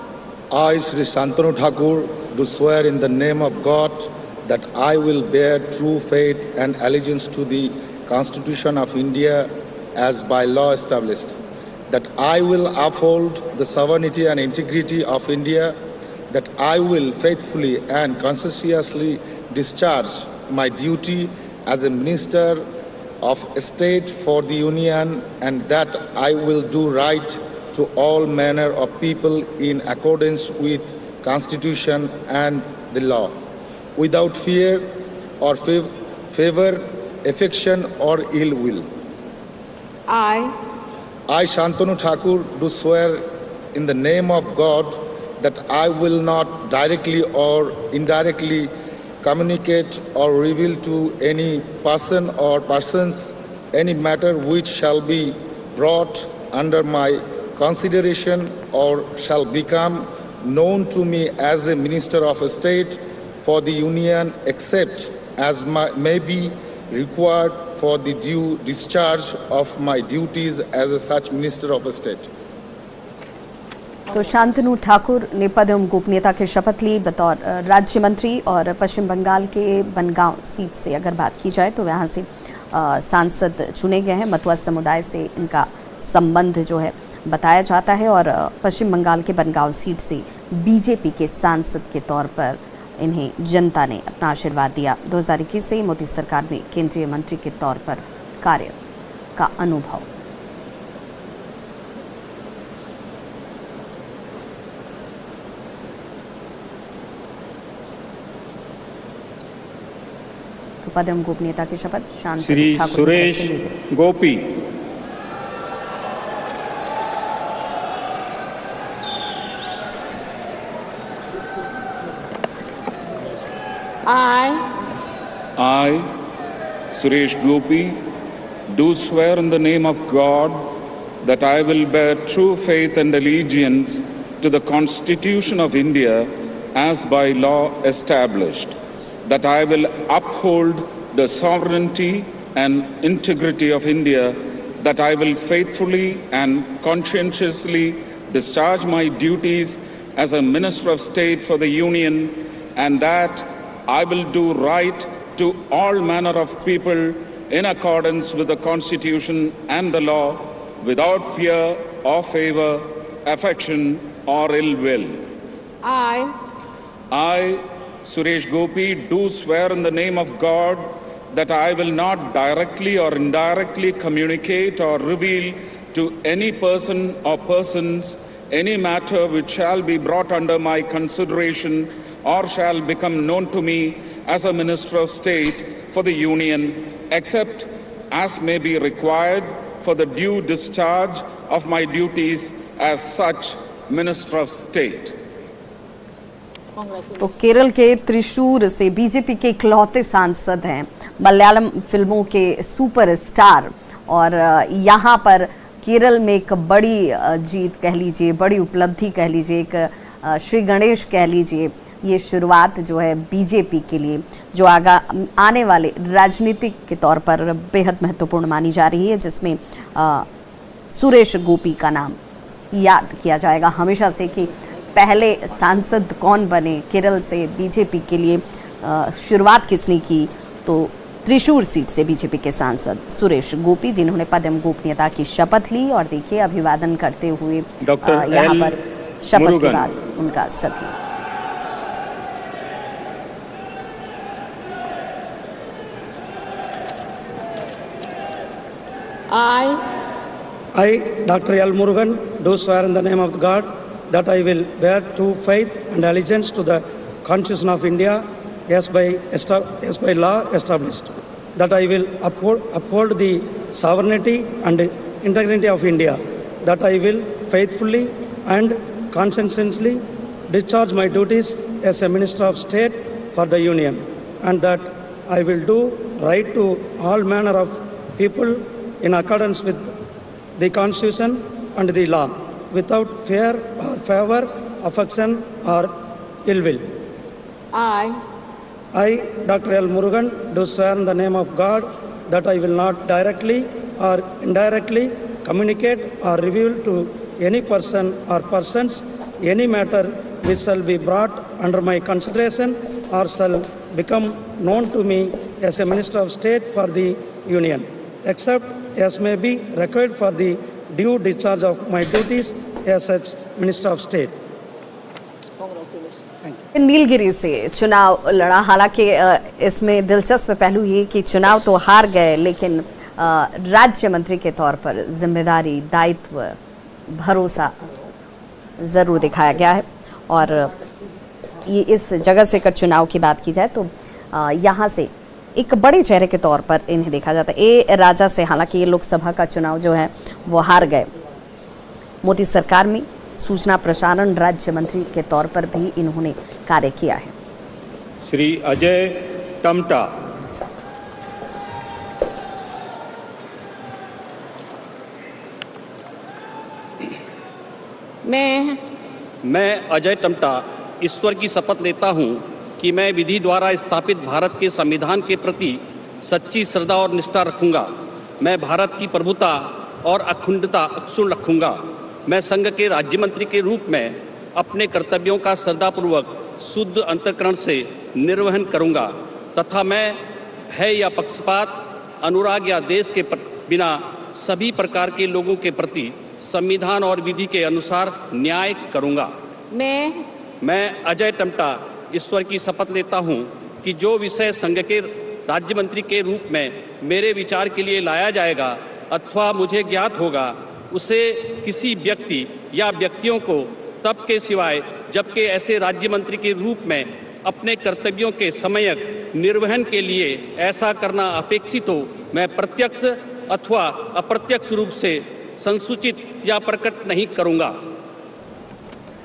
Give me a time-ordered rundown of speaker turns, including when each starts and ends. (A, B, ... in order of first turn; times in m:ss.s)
0:00.5-0:11.4 A
0:11.9-0:15.8 A
0:16.3-0:22.6 A
0:23.2-0:33.3 A
0:34.0-0:34.9 A
0:35.4-0:38.8 A
0:40.1-0:40.5 B
0:41.3-0:43.2 A
0:43.7-0:48.7 A
0:49.2-1:12.3 A
1:14.1-1:38.7 C
1:39.4-1:40.0 C
1:50.8-1:53.7 C
1:52.4-1:54.6 D
2:04.0-2:04.7 B
2:05.6-2:06.1 E
2:06.9-2:08.0 E
2:08.7-2:45.2 E
2:45.8-2:46.3 B
2:47.1-3:15.2 E
3:17.2-3:40.2 C
3:40.9-3:42.2 C
3:42.7-4:00.9 C
3:57.8-3:58.7 D
3:59.3-3:59.9 D
4:09.3-4:09.8 B
4:10.8-4:39.9 F
4:40.6-4:45.9 F
4:46.4-4:46.8 F
4:47.7-4:48.2 B
4:48.9-5:14.3 F
5:16.7-5:26.6 C
5:27.1-5:27.8 C
5:28.8-5:30.7 C
5:31.6-5:41.1 C
5:42.2-5:47.3 C
5:48.2-5:50.1 D
5:58.2-5:58.8 B
5:59.4-6:29.3 G
6:29.7-6:30.2 B
6:30.6-6:57.7 G